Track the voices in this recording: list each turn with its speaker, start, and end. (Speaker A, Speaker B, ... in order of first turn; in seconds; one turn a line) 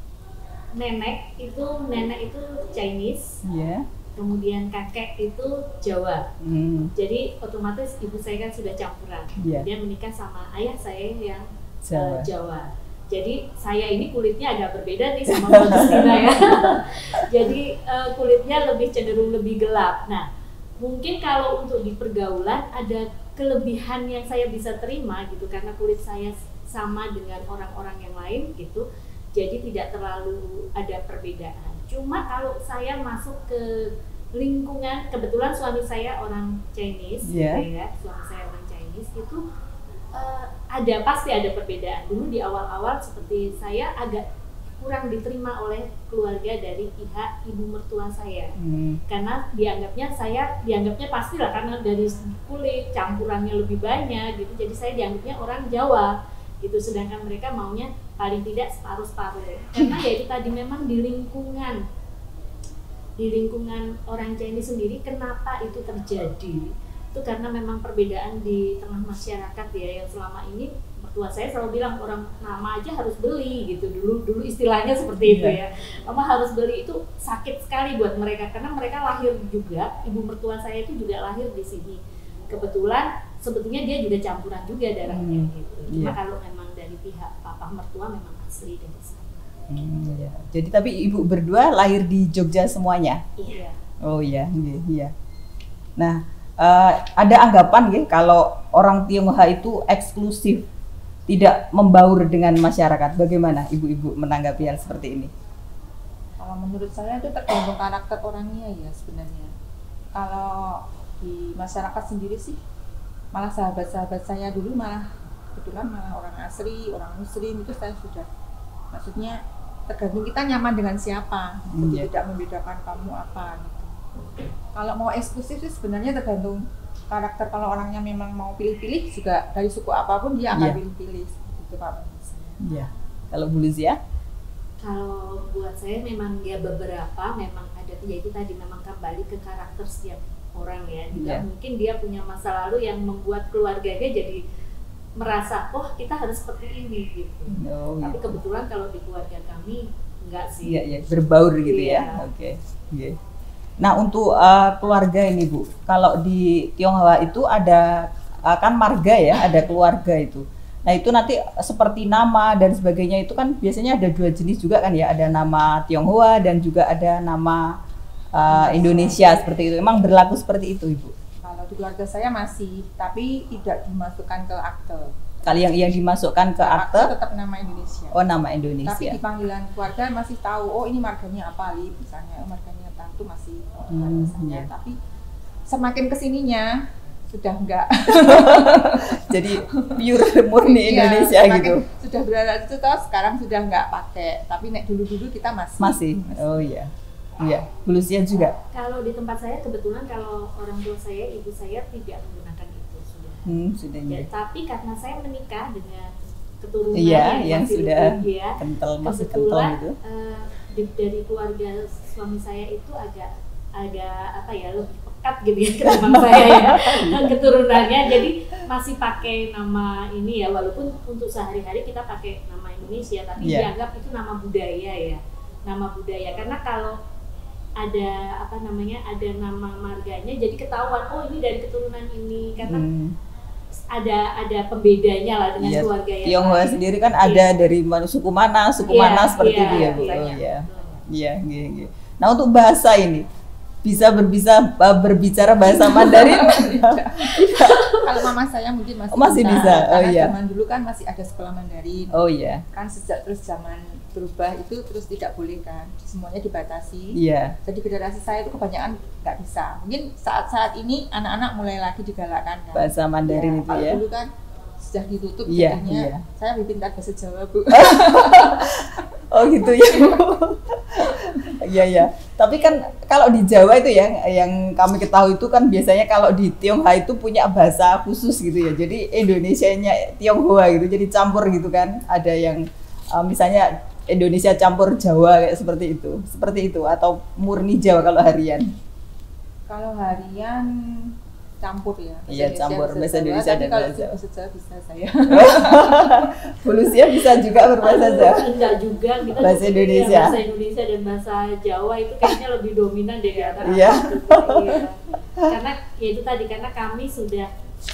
Speaker A: 0.7-3.4
Speaker B: 3.4-3.9
Speaker A: 4.2-6.3
Speaker B: 6.4-6.9
Speaker A: 6.9-20.2
Speaker B: 9.4-9.7
Speaker B: 11.8-12.3
Speaker B: 15.3-16.8
Speaker A: 20.8-28.8
Speaker A: 29.3-39.4
Speaker B: 37.2-37.6
Speaker A: 40.1-44.2
Speaker A: 44.8-61.8
Speaker B: 48.6-49.0
Speaker A: 63.2-82.0
Speaker B: 75.2-75.6
Speaker A: 82.5-89.5
Speaker B: 85.1-86.2
Speaker B: 89.7-93.2
Speaker A: 93.4-93.8
Speaker B: 94.0-95.1
Speaker B: 96.0-100.7
Speaker B: 101.3-105.3
Speaker C: 106.4-109.5
Speaker C: 110.1-112.6
Speaker C: 113.3-118.3
Speaker C: 118.9-132.6
Speaker B: 121.7-122.1
Speaker B: 130.5-130.8
Speaker B: 132.6-134.0
Speaker A: 134.8-144.4
Speaker B: 141.1-141.4
Speaker A: 145.2-150.9
Speaker B: 147.5-148.4
Speaker B: 150.6-153.2
Speaker A: 151.6-152.2
Speaker B: 153.8-167.7
Speaker B: 168.3-171.1
Speaker C: 168.5-169.5
Speaker C: 171.4-175.7
Speaker B: 175.4-177.1
Speaker C: 176.6-178.2
Speaker B: 178.1-179.2
Speaker C: 178.8-184.9
Speaker B: 183.9-184.7
Speaker C: 185.7-196.7
Speaker B: 188.1-191.8
Speaker B: 195.8-198.5
Speaker A: 198.7-203.5
Speaker B: 203.4-204.2
Speaker A: 204.1-227.0
Speaker B: 206.9-209.9
Speaker B: 215.8-218.3
Speaker B: 223.4-223.7
Speaker A: 227.8-232.8
Speaker B: 232.6-233.2
Speaker A: 233.9-237.5
Speaker B: 235.6-243.2
Speaker A: 238.9-241.0
Speaker C: 239.6-240.4
Speaker B: 243.8-247.8
Speaker C: 245.6-252.1
Speaker A: 247.5-248.0
Speaker B: 249.1-250.3
Speaker B: 252.1-252.6
Speaker C: 252.7-270.3
Speaker B: 257.1-257.6
Speaker B: 262.7-264.0
Speaker B: 265.5-266.2
Speaker B: 267.7-288.7
Speaker C: 271.0-271.4
Speaker C: 289.7-296.3
Speaker B: 292.3-294.1
Speaker B: 295.3-298.5
Speaker C: 297.1-297.4
Speaker A: 297.8-307.5
Speaker B: 299.4-300.4
Speaker C: 303.3-303.8
Speaker B: 303.6-304.8